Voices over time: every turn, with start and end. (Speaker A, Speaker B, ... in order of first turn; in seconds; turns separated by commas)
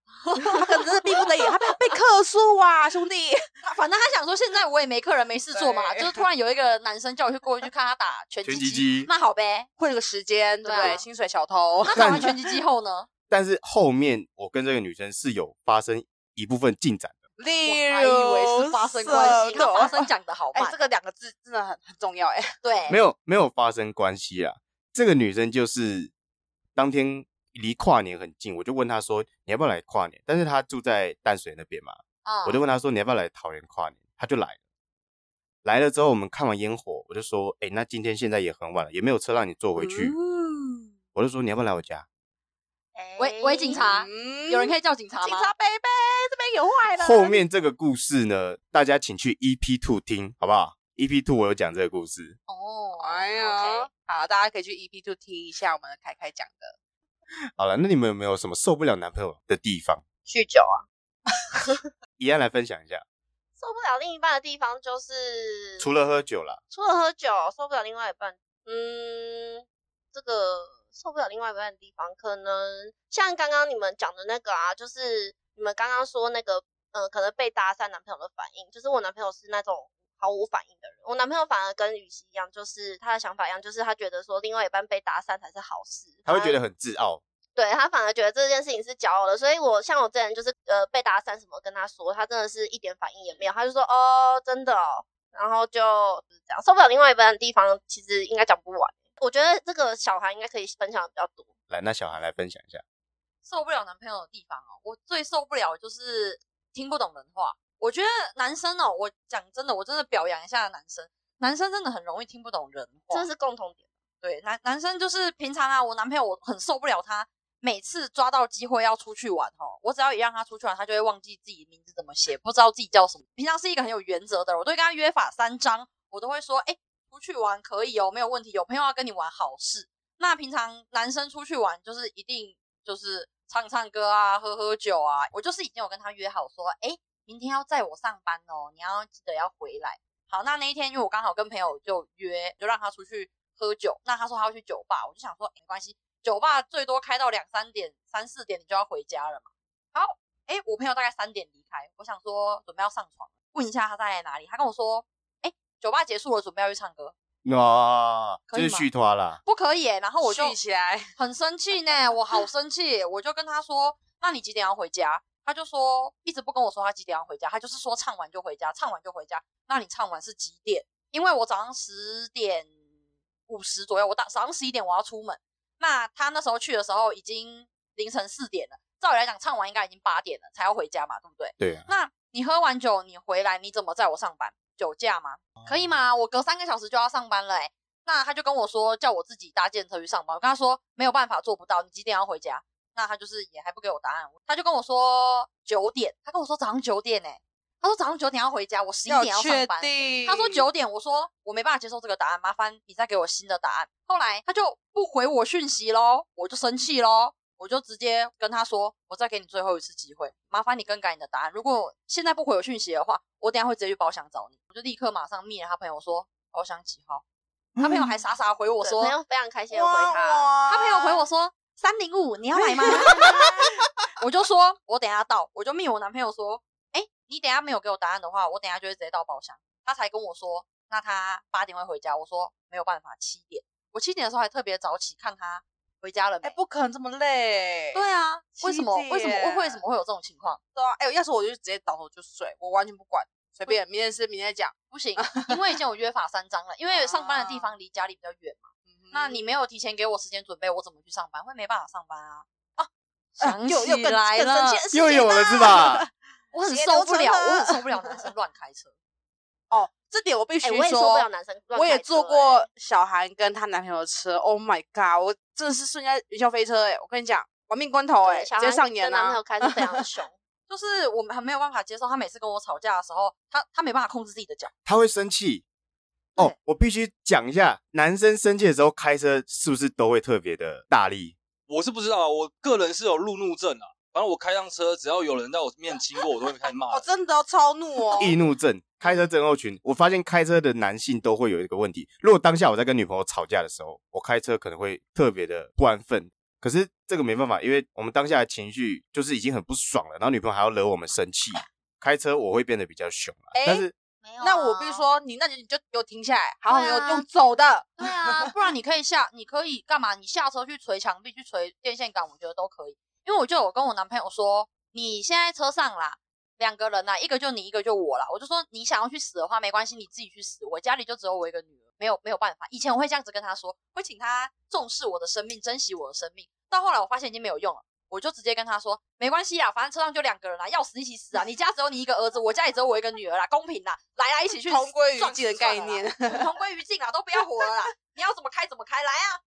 Speaker A: 0.2-0.6, Speaker B: 0.4-3.4, Speaker A: 3.6-9.7, Speaker B: 5.5-6.2, Speaker C: 8.4-9.1, Speaker B: 9.8-12.3, Speaker A: 10.6-11.0, Speaker A: 11.8-13.1, Speaker C: 11.9-12.3, Speaker C: 13.3-17.2, Speaker B: 17.4-22.5, Speaker A: 17.6-20.8, Speaker A: 22.6-23.0, Speaker C: 22.9-26.1, Speaker C: 26.7-34.6, Speaker A: 32.2-32.6, Speaker C: 35.6-40.1, Speaker A: 40.2-40.8, Speaker C: 41.1-42.0, Speaker D: 42.9-43.8, Speaker A: 43.2-45.5, Speaker B: 43.7-47.4, Speaker C: 47.0-52.4, Speaker A: 52.5-53.9, Speaker B: 53.0-56.7, Speaker C: 57.6-60.0, Speaker D: 60.3-60.9, Speaker C: 62.2-63.0, Speaker D: 63.6-65.9, Speaker C: 65.8-66.6, Speaker D: 66.7-86.6, Speaker C: 86.2-87.2, Speaker D: 87.5-101.5, Speaker C: 101.7-102.8, Speaker A: 103.4-113.3, Speaker D: 113.1-113.8, Speaker A: 114.2-157.1, Speaker C: 157.4-159.4, Speaker A: 158.5-158.9, Speaker A: 159.4-160.6, Speaker B: 160.2-161.1, Speaker A: 161.2-172.7, Speaker A: 173.5-217.2, Speaker C: 181.6-181.9, Speaker B: 199.1-200.6, Speaker A: 217.8-219.1, Speaker D: 218.8-220.5, Speaker B: 219.7-221.2, Speaker A: 220.7-223.6, Speaker B: 222.5-223.6, Speaker D: 223.2-223.4, Speaker A: 224.2-236.6, Speaker B: 236.4-238.0, Speaker A: 237.9-240.6, Speaker B: 238.6-239.8, Speaker B: 240.8-245.6, Speaker A: 244.9-255.2, Speaker B: 246.9-247.7, Speaker B: 248.9-249.4, Speaker B: 253.4-256.1, Speaker C: 254.9-256.1, Speaker A: 256.5-258.9, Speaker B: 256.6-258.2, Speaker B: 259.7-269.9, Speaker D: 260.6-262.6, Speaker D: 268.2-270.3, Speaker A: 270.7-274.7, Speaker C: 274.8-275.6, Speaker C: 276.4-281.4, Speaker E: 281.7-287.1, Speaker B: 286.9-288.3, Speaker C: 288.2-303.9, Speaker B: 303.5-303.9, Speaker A: 304.2-305.1, Speaker B: 304.4-308.5, Speaker A: 306.7-307.2, Speaker A: 308.0-339.4, Speaker B: 334.7-336.5